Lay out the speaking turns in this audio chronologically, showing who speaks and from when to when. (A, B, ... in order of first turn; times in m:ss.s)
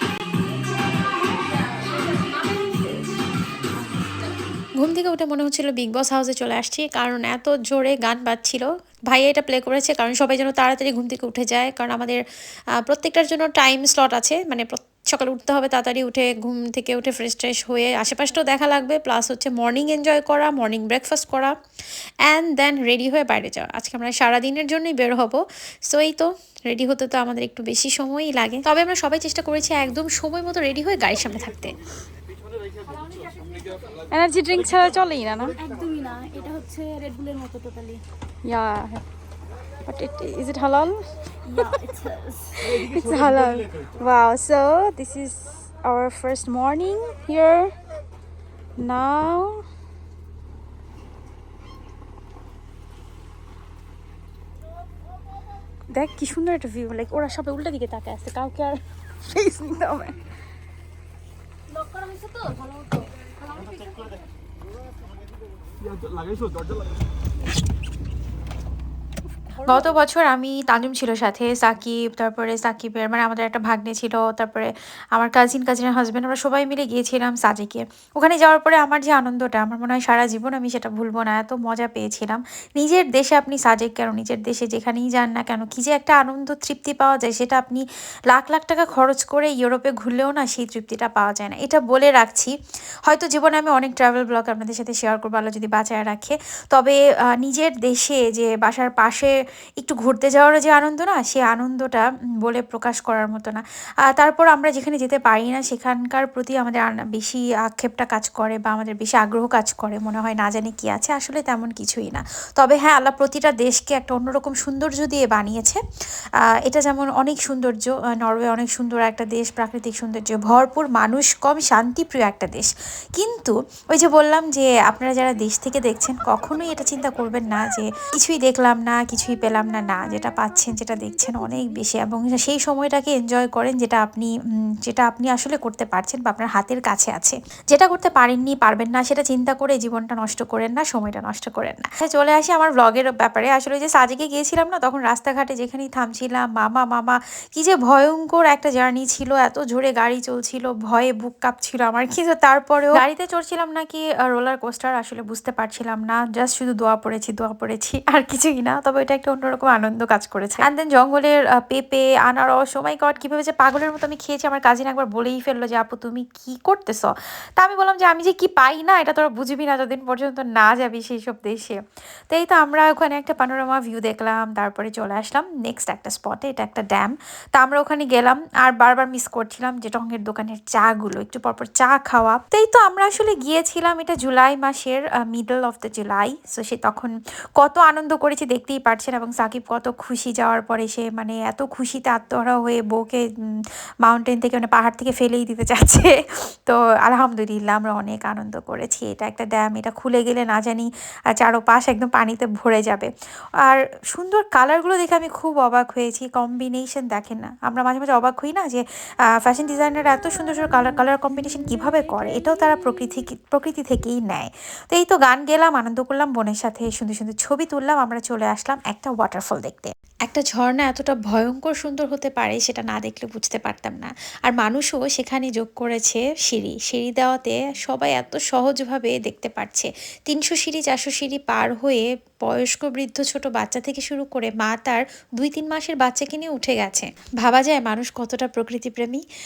0:04.8-0:12.2 A
0:12.8-0:21.5 A
0:22.3-0:31.8 A
0:32.9-0:33.8 B
0:34.1-0:35.6 C
0:35.6-0:38.0 B
0:38.4-0:39.0 C
0:39.8-0:41.6 C
0:41.4-0:42.7 B
0:42.6-0:47.7 C
0:48.8-0:49.6 C
0:55.9-1:00.2 C
1:01.7-1:04.1 B
1:09.6-1:32.5 A
1:33.0-1:55.8 A
1:56.5-2:14.3 A
2:14.8-3:13.2 A
3:14.0-3:23.1 A
3:23.6-3:28.8 A
3:29.4-3:59.2 A